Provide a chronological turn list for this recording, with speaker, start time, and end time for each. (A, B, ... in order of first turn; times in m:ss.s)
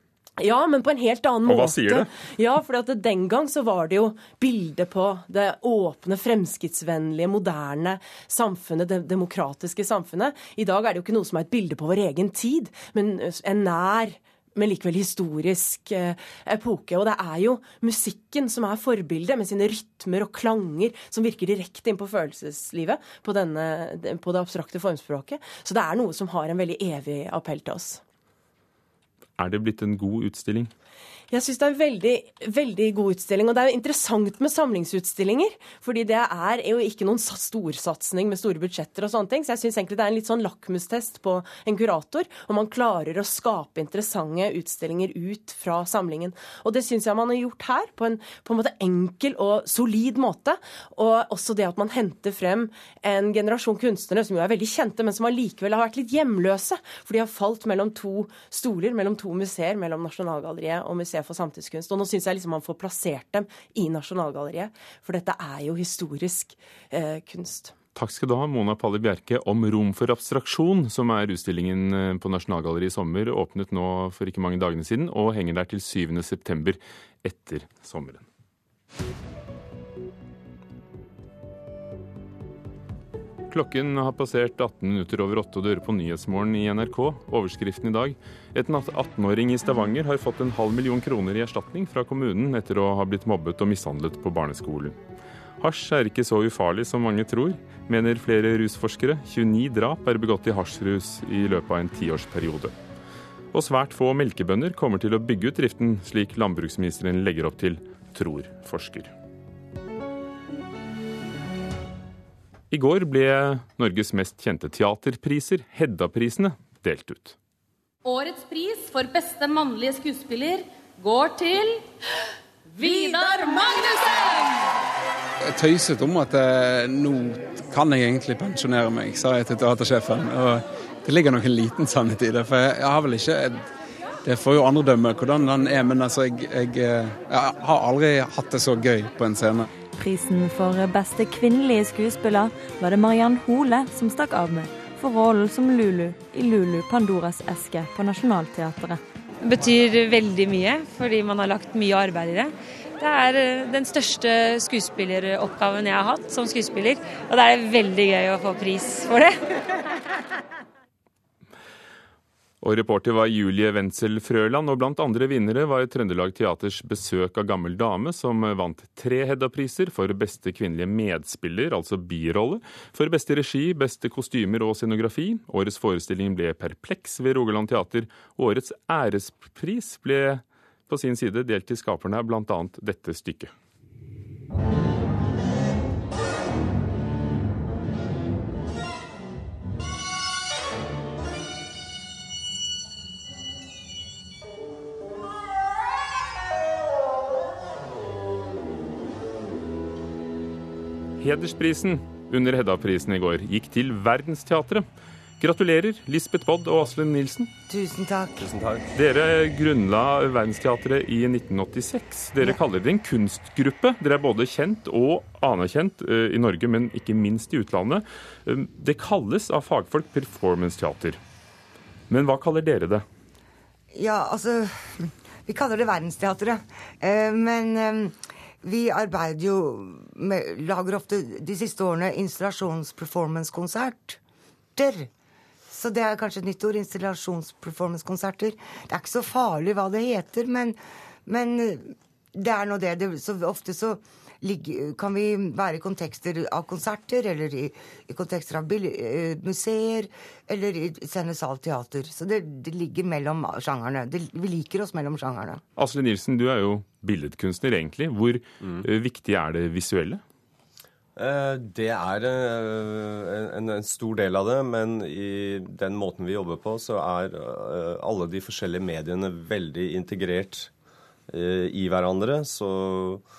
0:00.4-0:28.0 A
0:01.4-0:02.1 B
0:29.4-0:30.7 B
0:31.3-1:07.7 A
1:07.9-1:18.2 B
1:23.5-1:35.0 B
1:35.6-1:42.7 B
1:43.5-1:49.1 B
1:52.7-1:57.4 B
1:58.0-2:01.8 C
2:02.7-2:04.5 C
2:05.4-2:13.7 D
2:14.2-2:19.7 D
2:20.0-2:29.0 E
2:29.4-2:39.4 F
2:42.6-3:03.5 B
3:21.2-3:24.8 B
3:25.4-3:27.5 B
3:27.7-3:28.5 G
3:28.4-3:28.8 H
3:28.9-3:41.2 B
3:42.1-3:43.0 B
3:43.9-3:54.2 G
3:54.8-3:55.1 G
3:55.7-4:15.6 G
4:15.8-4:20.2 B
4:21.2-4:30.7 H
4:31.3-4:33.2 H